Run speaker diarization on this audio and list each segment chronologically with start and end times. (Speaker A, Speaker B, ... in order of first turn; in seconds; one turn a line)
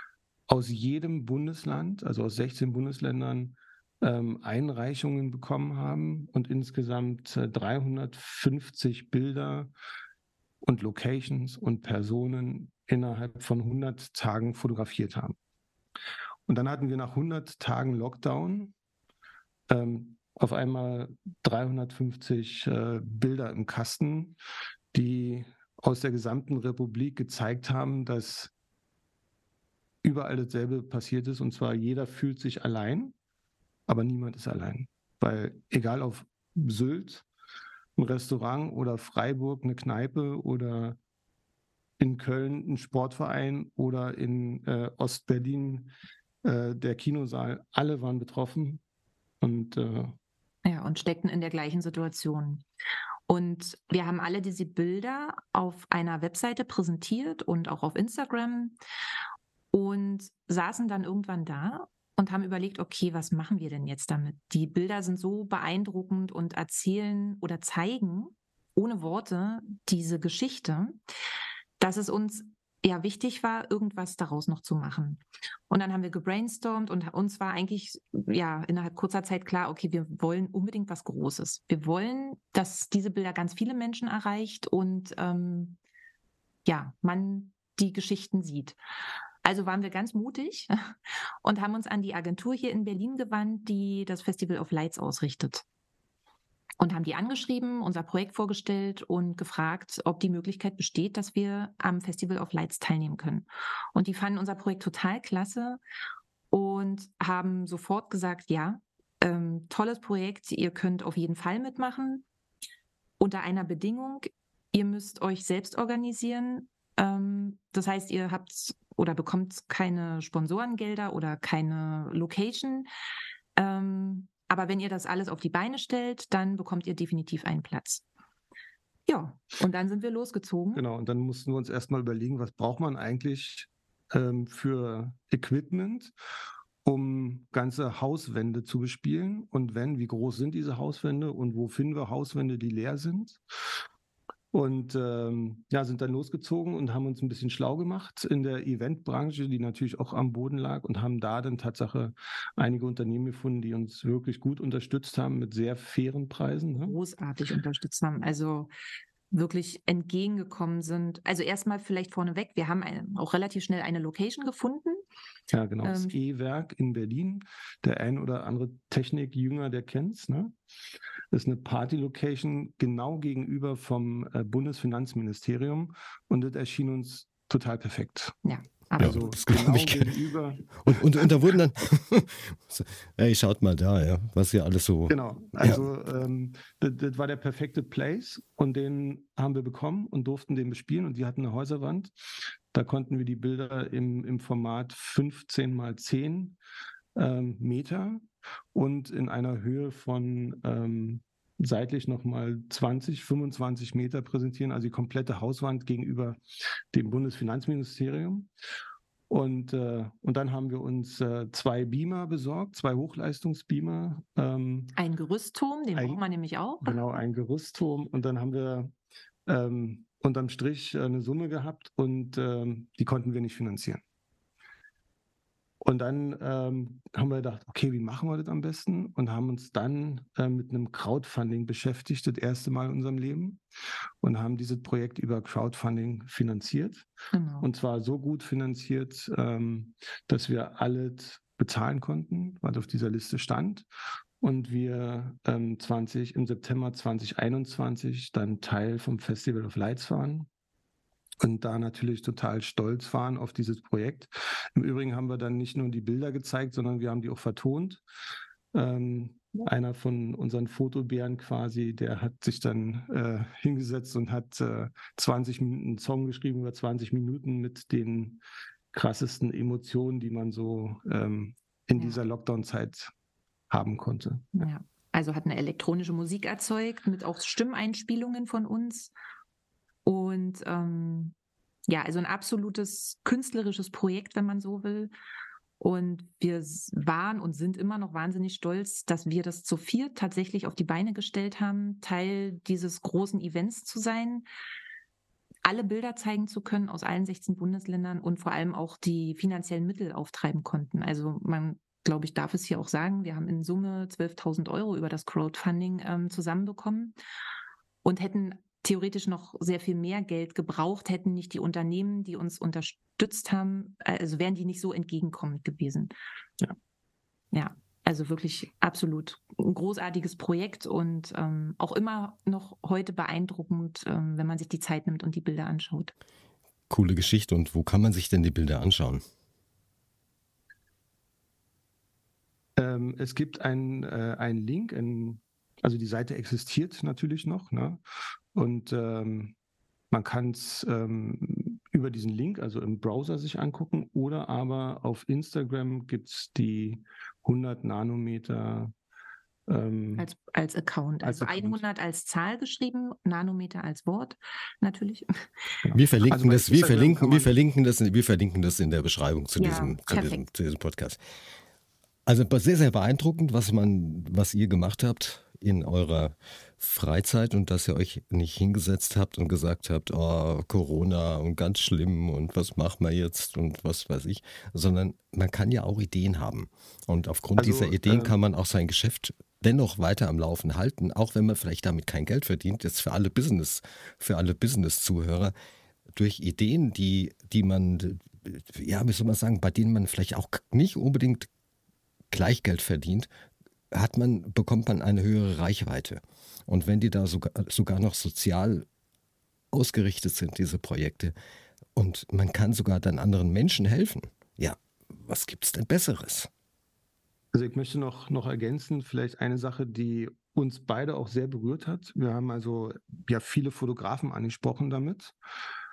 Speaker A: 0.5-9.7
Speaker A: 10.6-15.4
Speaker A: 16.5-18.7
Speaker A: 19.7-24.4
Speaker A: 24.9-28.5
Speaker A: 30.0-33.1
Speaker A: 33.9-37.2
Speaker A: 38.0-41.0
Speaker A: 42.0-45.9
Speaker A: 46.4-48.8
Speaker A: 49.4-50.1
Speaker B: 50.6-52.6
Speaker B: 53.3-58.8
Speaker B: 59.7-71.0
Speaker B: 71.8-85.8
Speaker B: 86.7-88.8
Speaker B: 89.4-95.7
Speaker B: 96.8-105.8
Speaker B: 106.5-112.2
Speaker B: 113.2-122.9
Speaker B: 123.6-128.0
Speaker B: 129.1-130.8
Speaker A: 130.8-136.1
Speaker A: 136.8-143.4
Speaker A: 144.5-157.0
Speaker B: 156.8-158.7
Speaker B: 159.3-165.0
Speaker A: 165.5-170.5
Speaker B: 165.8-166.2
Speaker A: 171.3-178.4
Speaker B: 178.4-179.2
Speaker A: 179.0-181.0
Speaker C: 179.0-180.2
Speaker C: 180.8-185.8
Speaker A: 185.1-192.1
Speaker A: 192.7-196.6
Speaker A: 197.2-198.2
Speaker A: 198.7-206.4
Speaker A: 206.9-208.5
Speaker A: 209.3-214.9
Speaker B: 215.0-217.0
Speaker A: 215.9-216.2
Speaker A: 216.8-218.9
Speaker A: 219.5-224.0
Speaker A: 225.8-233.6
Speaker A: 234.2-237.1
Speaker B: 237.3-237.7
Speaker A: 237.6-243.9
Speaker A: 244.4-250.5
Speaker A: 251.4-258.0
Speaker A: 258.7-268.4
Speaker A: 268.9-273.1
Speaker A: 273.7-274.7
Speaker B: 274.6-279.1
Speaker B: 280.1-281.3
Speaker B: 281.9-285.1
Speaker B: 285.8-294.4
Speaker B: 295.6-307.1
Speaker B: 308.0-316.1
Speaker B: 317.5-326.1
Speaker C: 326.9-329.2
Speaker A: 332.8-338.0
Speaker A: 338.6-339.6
Speaker A: 340.1-348.9
Speaker A: 349.7-350.3
Speaker B: 350.2-355.4
Speaker A: 351.2-351.8
Speaker A: 355.8-357.5
Speaker C: 355.9-361.2
Speaker B: 359.6-360.4
Speaker C: 362.3-385.5
Speaker A: 377.6-378.4
Speaker C: 386.2-391.5
Speaker C: 392.3-393.3
Speaker C: 393.9-398.9
Speaker C: 399.7-401.3
Speaker C: 402.0-406.5
Speaker A: 407.5-415.4